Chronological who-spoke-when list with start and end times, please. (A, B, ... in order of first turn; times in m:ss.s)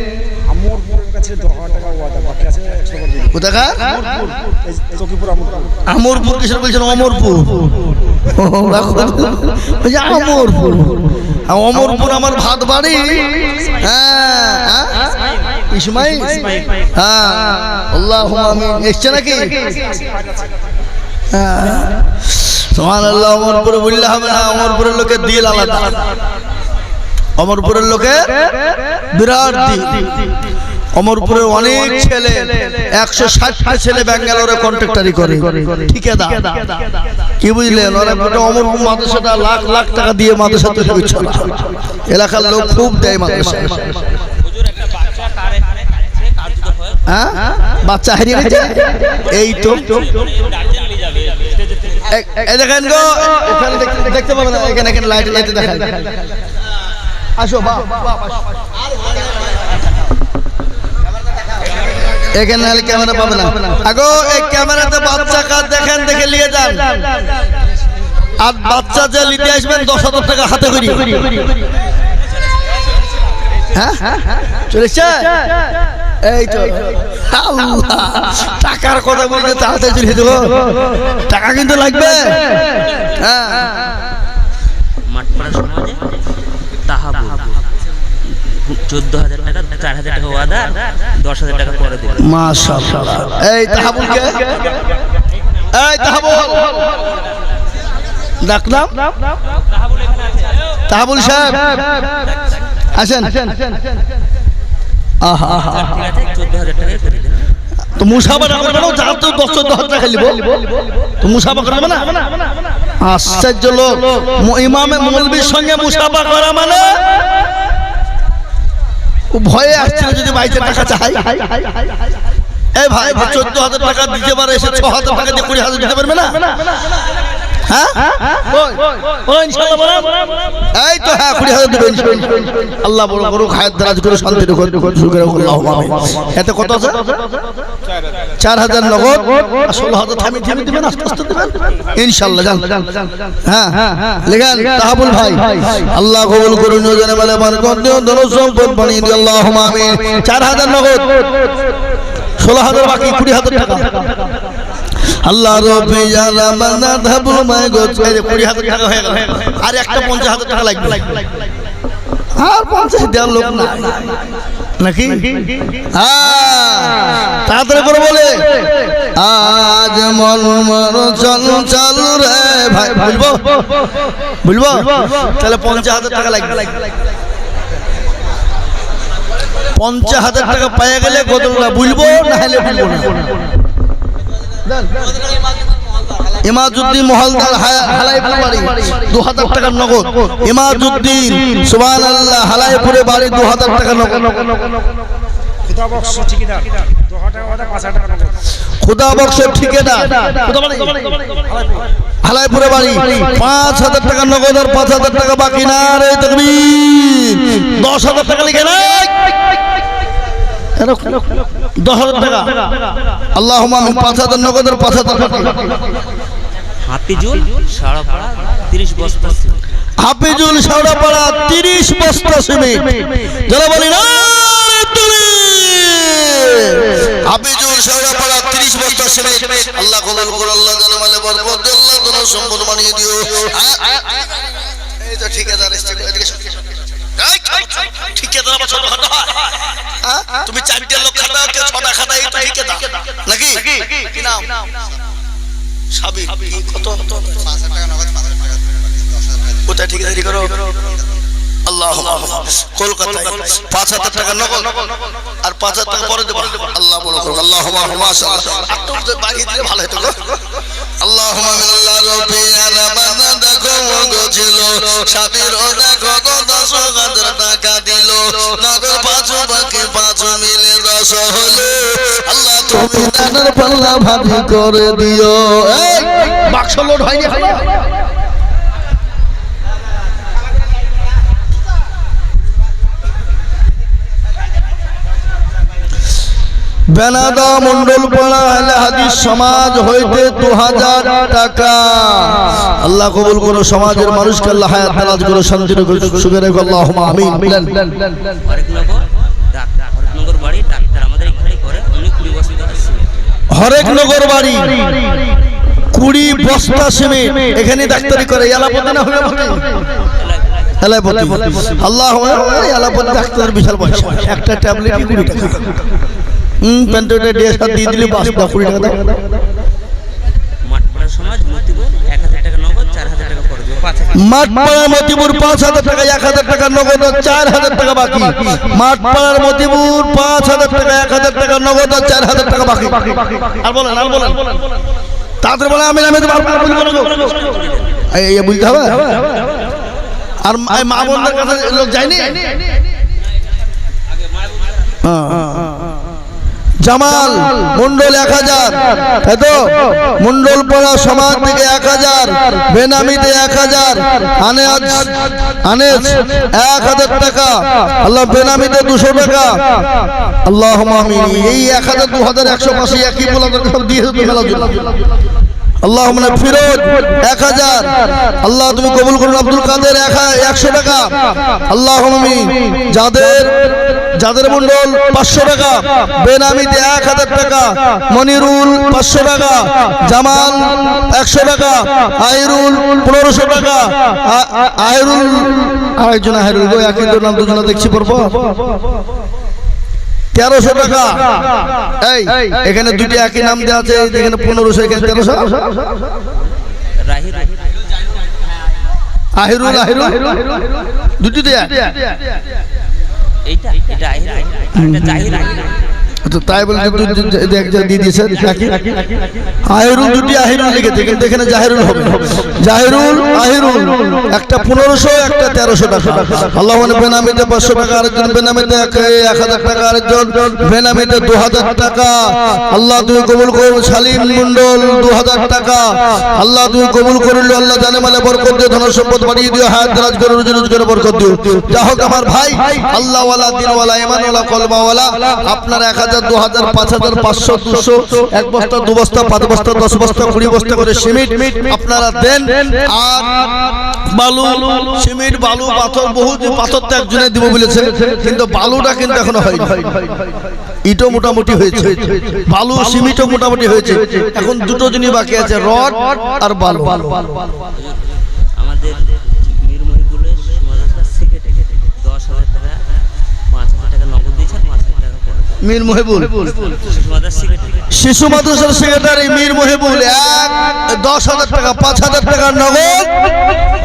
0:00.5-0:05.8 A
0:03.3-0:04.0 B
0:05.9-0:15.1 B
0:15.7-0:19.7 B
0:19.8-0:20.4 A
0:21.3-0:26.0 B
0:27.4-0:28.3 B
0:29.1-0:30.3 B
0:31.0-0:36.7 B
0:37.4-0:44.0 B
0:44.5-0:47.0 C
0:47.1-0:50.0 B
0:50.1-0:52.0 C
0:52.1-0:56.1 B
0:57.4-0:58.0 B
1:02.3-1:07.0 B
1:08.4-1:11.4 B
1:13.8-1:15.3 B
1:16.2-1:20.6 B
1:21.2-1:23.8 B
1:25.1-1:26.2 C
1:26.8-1:27.6 C
1:28.5-1:33.0 C
1:32.2-1:34.6 B
1:35.7-1:36.7 B
1:38.4-1:39.0 B
1:40.9-1:41.8 B
1:43.0-1:43.5 B
1:45.2-1:46.0 B
1:45.7-1:47.4 C
1:48.0-1:50.6 B
1:51.2-1:52.1 B
1:53.0-1:57.0 B
1:59.3-2:01.8 B
2:02.8-2:06.6 B
2:07.7-2:17.0 B
2:18.4-2:31.4 B
2:32.4-2:34.1 B
2:35.2-2:41.3 B
2:42.4-2:44.2 B
2:44.8-2:53.5 B
2:54.4-2:56.8 B
2:59.8-3:03.4 B
3:06.4-3:14.8 B
3:15.7-3:18.4 A
3:18.8-3:21.2 B
3:22.2-3:29.3 B
3:30.8-3:32.6 B
3:33.4-3:35.6 B
3:36.8-3:39.6 C
3:40.0-3:54.2 B
3:55.0-3:56.6 B
3:57.2-4:04.6 B
4:05.9-4:07.4 B
4:09.7-4:10.6 B
4:11.7-4:20.4 B
4:21.0-4:37.8 B
4:46.9-4:58.0 B
4:58.4-5:03.3 C
5:03.5-5:05.2 B
5:05.9-5:09.7 B
5:10.2-5:10.5 C
5:10.8-5:15.7 B
5:16.6-5:19.2 B
5:20.6-5:24.3 C
5:24.2-5:34.5 B
5:35.4-5:37.4 B
5:37.3-5:37.9 C
5:38.1-5:39.2 B
5:40.4-5:42.4 B
5:45.0-5:45.7 B
5:46.8-5:59.6 B
6:00.4-6:04.9 B
6:05.8-6:11.1 B
6:11.7-6:28.5 B
6:30.3-6:31.3 B
6:32.0-6:35.7 B
6:37.0-6:37.7 C
6:39.4-6:40.6 B
6:41.2-6:41.9 B
6:43.5-6:45.8 C
6:44.8-6:45.2 B
6:46.2-6:49.0 B
6:49.6-7:30.0 B
7:30.8-7:37.4 B
7:37.8-7:45.6 C
7:45.6-7:46.5 B
7:46.6-7:47.9 C
7:47.9-7:53.3 B